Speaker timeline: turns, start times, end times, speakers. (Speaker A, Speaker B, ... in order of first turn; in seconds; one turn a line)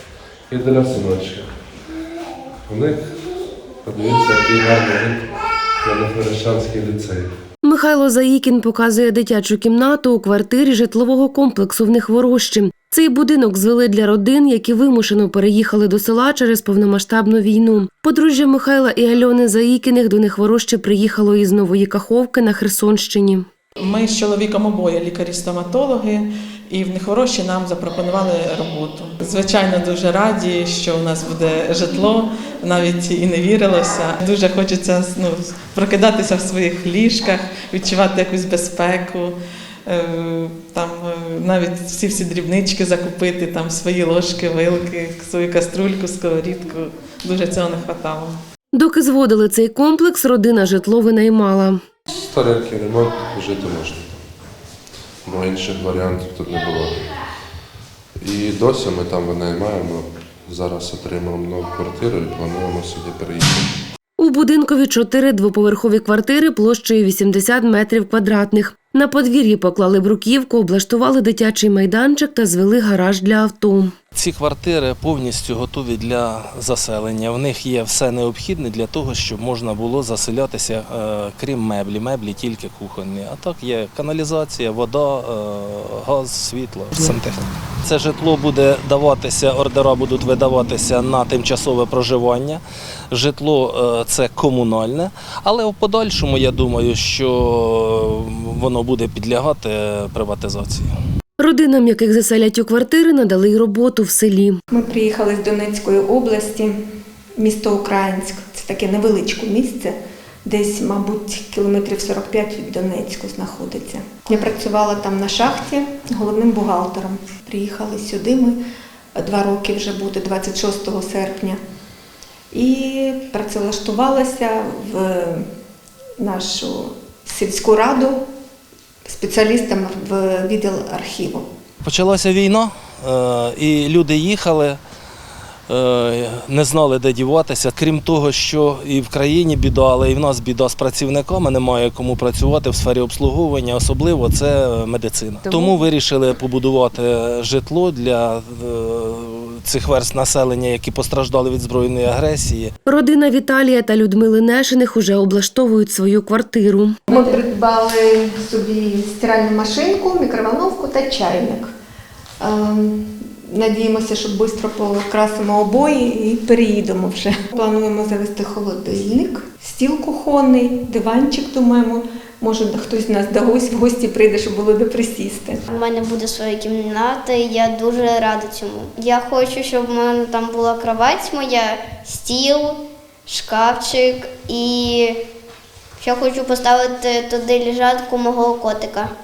Speaker A: 0.5-1.5
Speaker A: 2.7-3.1
Speaker A: 3.8-5.3
Speaker A: 5.8-7.3
Speaker B: 7.6-23.5
Speaker C: 23.8-39.3
Speaker C: 39.9-48.4
Speaker B: 48.7-51.8
Speaker A: 52.1-54.2
Speaker A: 55.3-57.0
Speaker A: 58.2-63.7
Speaker B: 64.2-73.9
Speaker D: 74.2-100.9
Speaker B: 101.4-104.6
Speaker E: 104.7-106.8
Speaker E: 107.4-118.6
Speaker E: 119.2-121.6
Speaker E: 122.5-125.5
Speaker E: 126.2-128.2
Speaker E: 129.1-131.5
Speaker D: 131.8-134.8
Speaker D: 135.7-152.7
Speaker B: 145.5-145.8
Speaker B: 152.9-157.0
Speaker E: 157.1-161.7
Speaker E: 162.4-175.6
Speaker F: 175.7-185.2
Speaker F: 186.0-189.1